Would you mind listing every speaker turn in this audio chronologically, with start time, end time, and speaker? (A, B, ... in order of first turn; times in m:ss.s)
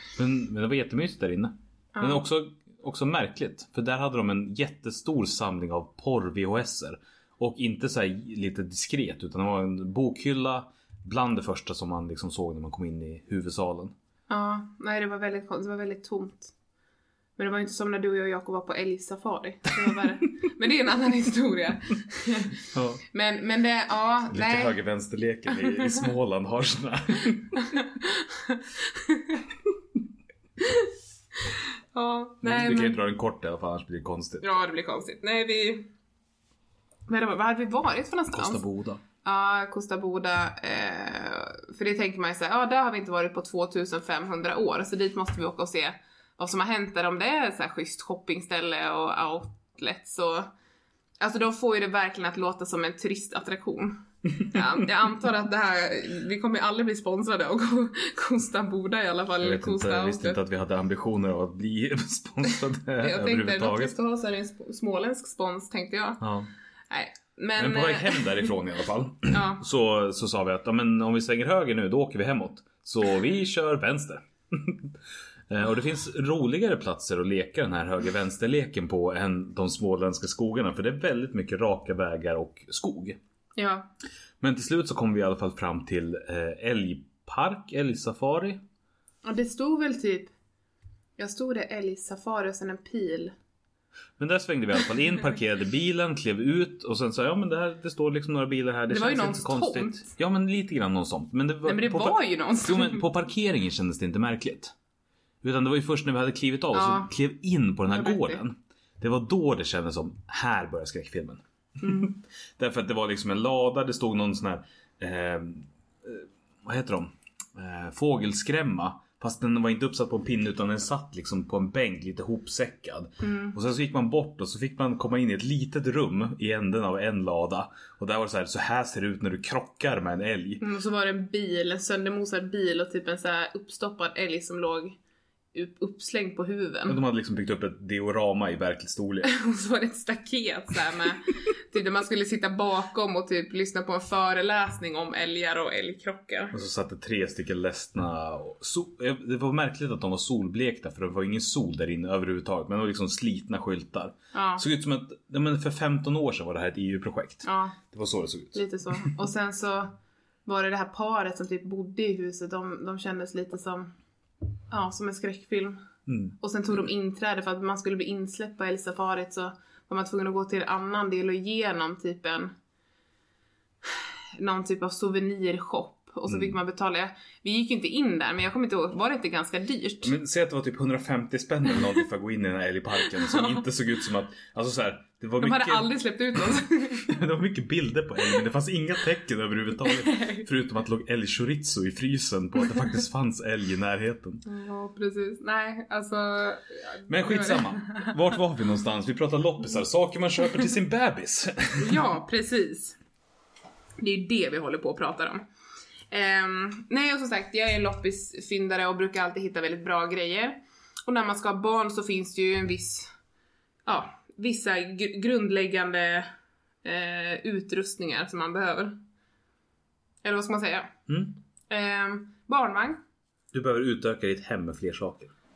0:00.2-0:14.0 A
0:02.0-0:02.2 B
0:14.3-0:16.5 B
0:17.4-0:24.8 B
0:22.7-0:23.0 A
0:24.3-0:27.6 A
0:25.6-0:26.0 B
0:27.6-0:29.5 B
0:30.6-0:30.9 B
0:31.4-0:33.0 B
0:32.4-0:34.6 A
0:34.4-0:35.9 B
0:37.1-0:38.6 B
0:38.3-0:39.0 A
0:39.2-0:50.5 B
0:51.2-1:00.4 B
0:59.4-1:04.0 A
1:03.0-1:06.2 B
1:06.2-1:06.5 A
1:06.9-1:08.5 B
1:07.6-1:15.0 A
1:09.3-1:09.6 B
1:15.5-1:23.2 A
1:23.6-1:23.9 B
1:24.4-1:28.6 A
1:29.2-1:30.3 B
1:31.2-1:33.3 B
1:34.2-1:44.7 A
1:38.9-1:40.1 B
1:41.6-1:43.1 B
1:45.4-2:10.6 A
1:46.7-1:47.1 B
1:47.9-1:48.4 B
1:51.8-1:52.1 B
2:03.2-2:03.6 B
2:10.6-2:15.0 B
2:15.5-2:17.0 B
2:16.9-2:19.3 A
2:19.2-2:26.6 B
2:26.5-2:39.1 A
2:34.3-2:34.6 B
2:37.4-2:37.8 B
2:38.5-2:39.9 B
2:40.5-2:43.9 B
2:44.7-2:45.8 B
2:46.1-2:46.4 A
2:46.4-2:52.5 B
2:54.4-3:00.1 B
2:56.3-2:56.6 A
3:00.0-3:14.4 A
3:03.1-3:03.6 B
3:05.4-3:07.2 B
3:09.9-3:10.5 B
3:14.4-3:18.2 B
3:17.1-3:22.0 A
3:21.8-3:23.0 B
3:24.0-3:25.4 B
3:26.1-3:33.1 B
3:33.9-3:36.3 B
3:36.8-3:39.0 B
3:40.2-3:41.0 B
3:41.1-3:41.4 A
3:41.7-3:43.0 B
3:43.5-3:45.3 A